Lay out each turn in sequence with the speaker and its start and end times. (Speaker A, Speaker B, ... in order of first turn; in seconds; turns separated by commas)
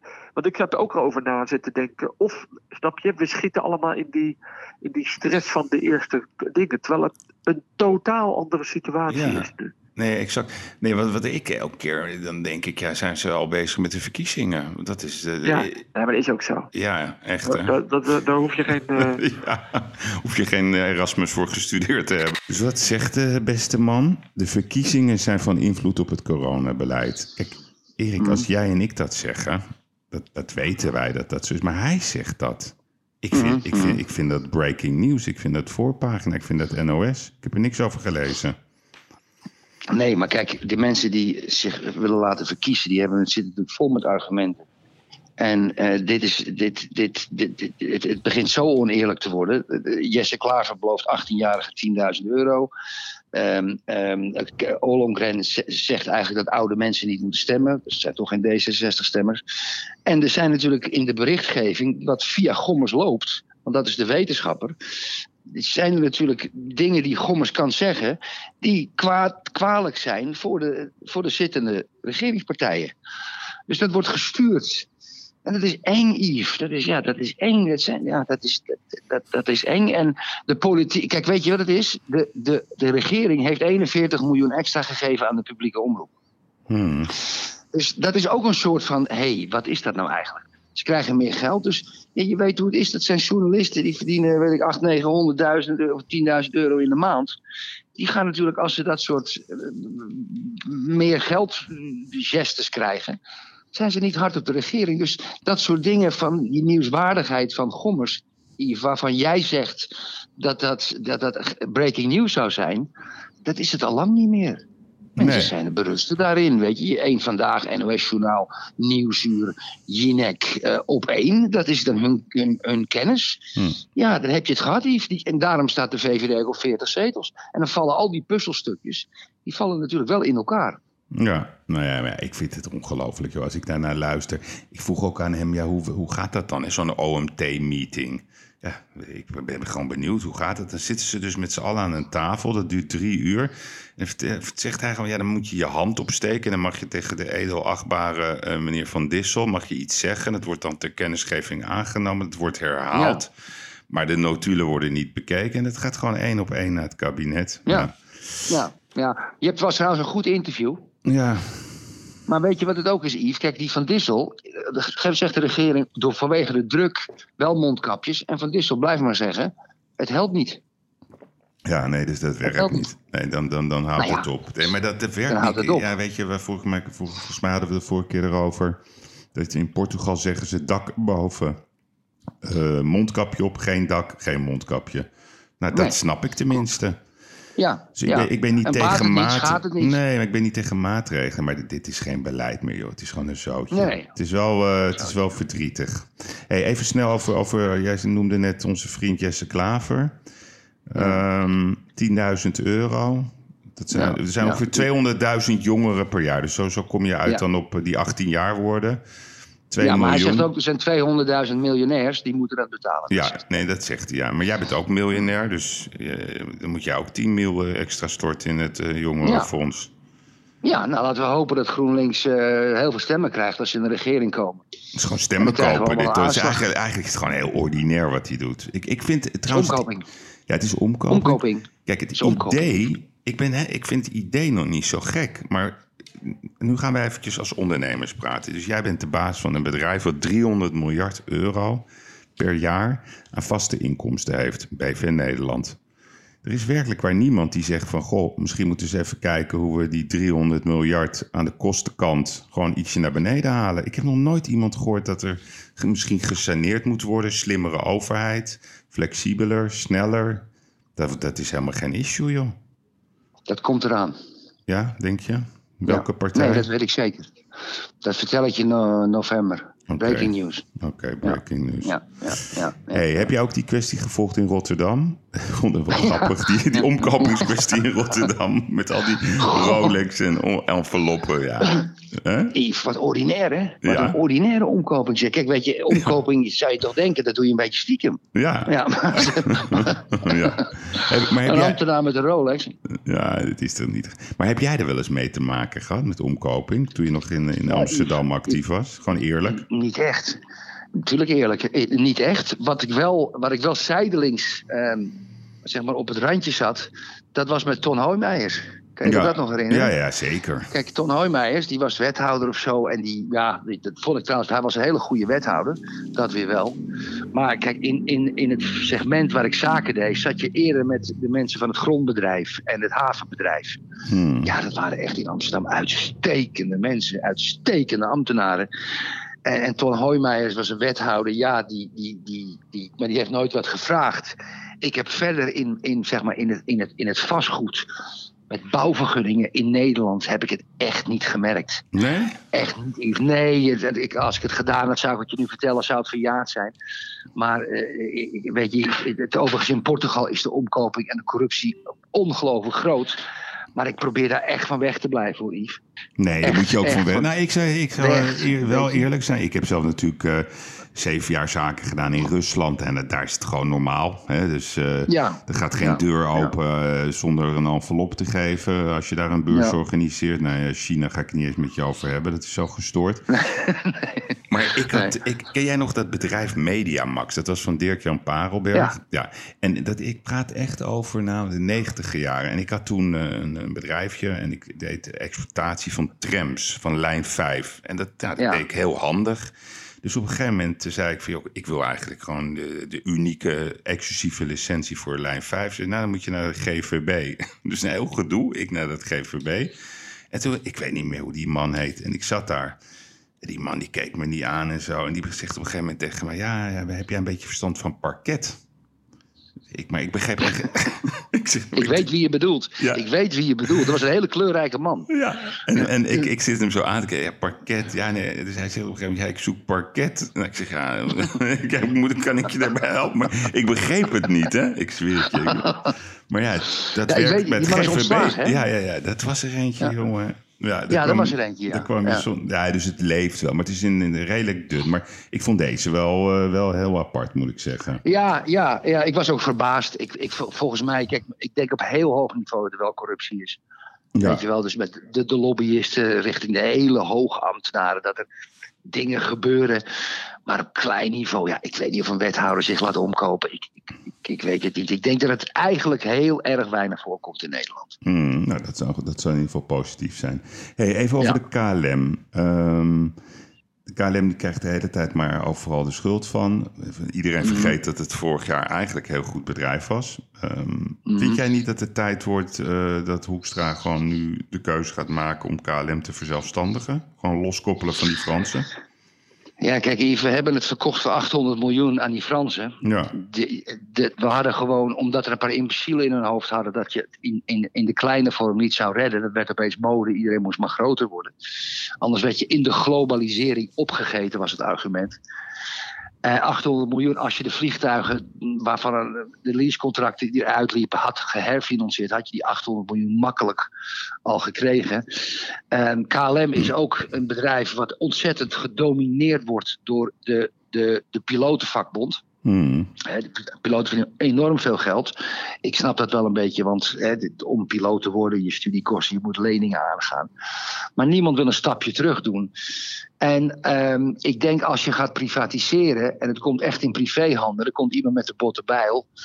Speaker A: 0.3-9.7, Speaker B: 9.1-15.8, Speaker A: 15.4-16.7, Speaker B: 16.7-17.7, Speaker A: 17.5-19.2, Speaker B: 19.0-38.6, Speaker C: 28.2-28.5, Speaker C: 33.3-34.0, Speaker C: 39.9-44.7, Speaker C: 45.4-52.7, Speaker C: 53.3-59.4, Speaker C: 60.1-64.8, Speaker C: 65.5-72.9, Speaker C: 73.7-74.9, Speaker C: 75.5-86.1, Speaker B: 86.7-87.2, Speaker C: 87.7-97.4, Speaker C: 98.0-103.2, Speaker C: 103.7-112.9, Speaker C: 113.4-114.6, Speaker B: 115.2-115.5, Speaker C: 115.2-130.8, Speaker B: 131.1-153.3, Speaker C: 152.9-153.2, Speaker B: 153.9-158.5, Speaker C: 158.5-160.8, Speaker B: 161.1-161.7, Speaker C: 162.3-170.6, Speaker B: 171.7-178.8, Speaker C: 172.5-172.8, Speaker C: 174.0-174.3, Speaker C: 175.3-175.9, Speaker B: 179.3-181.6, Speaker B: 182.4-185.1, Speaker B: 185.6-187.0, Speaker C: 187.6-190.0, Speaker B: 188.0-200.2, Speaker C: 193.7-194.1, Speaker B: 200.9-209.0, Speaker C: 203.9-204.7, Speaker B: 209.7-210.5, Speaker C: 209.8-213.4, Speaker B: 213.1-219.9, Speaker C: 219.2-219.5, Speaker C: 220.6-224.6, Speaker B: 224.9-229.9, Speaker C: 225.4-226.6, Speaker C: 229.5-230.1, Speaker B: 230.5-241.9, Speaker C: 231.1-232.6, Speaker B: 242.4-245.8, Speaker B: 246.4-262.6, Speaker C: 263.5-264.2, Speaker B: 264.7-266.7, Speaker C: 265.9-267.3, Speaker C: 268.0-270.6, Speaker B: 269.9-272.0, Speaker C: 271.2-273.3, Speaker B: 272.9-282.6, Speaker C: 276.0-276.3, Speaker C: 279.4-279.9, Speaker C: 282.5-292.8, Speaker B: 283.8-284.2, Speaker B: 288.3-291.8, Speaker B: 292.9-299.6, Speaker C: 297.7-298.6, Speaker C: 299.5-300.4, Speaker C: 301.0-309.9, Speaker B: 309.0-310.7, Speaker C: 310.7-316.8, Speaker C: 317.3-323.8, Speaker B: 324.1-324.5, Speaker C: 324.4-328.7, Speaker C: 329.4-337.9, Speaker C: 338.5-341.9, Speaker B: 341.9-342.4, Speaker C: 342.5-346.7, Speaker C: 347.4-353.2, Speaker C: 353.8-355.8, Speaker B: 356.2-373.2, Speaker C: 356.4-357.3, Speaker C: 358.0-359.1, Speaker C: 365.1-366.5, Speaker C: 369.5-369.8, Speaker C: 373.3-374.3, Speaker B: 374.5-389.5, Speaker C: 388.4-388.6, Speaker B: 390.0-399.7, Speaker B: 400.3-402.8, Speaker B: 403.4-408.6, Speaker B: 409.7-412.1, Speaker C: 411.8-415.1, Speaker B: 415.1-438.0, Speaker C: 425.5-425.9, Speaker C: 427.1-428.6, Speaker C: 430.9-432.2, Speaker C: 438.0-443.6, Speaker B: 444.1-444.4, Speaker C: 444.2-448.3, Speaker C: 448.9-449.8, Speaker C: 450.5-457.9, Speaker B: 458.0-463.2, Speaker B: 463.9-478.7, Speaker C: 467.4-467.8, Speaker C: 471.1-471.4, Speaker C: 479.6-491.3, Speaker B: 482.8-483.2, Speaker C: 492.0-495.2, Speaker C: 496.2-503.7, Speaker C: 504.2-512.2, Speaker B: 512.5-512.9, Speaker C: 513.0-520.3, Speaker C: 521.0-522.5, Speaker C: 523.2-529.1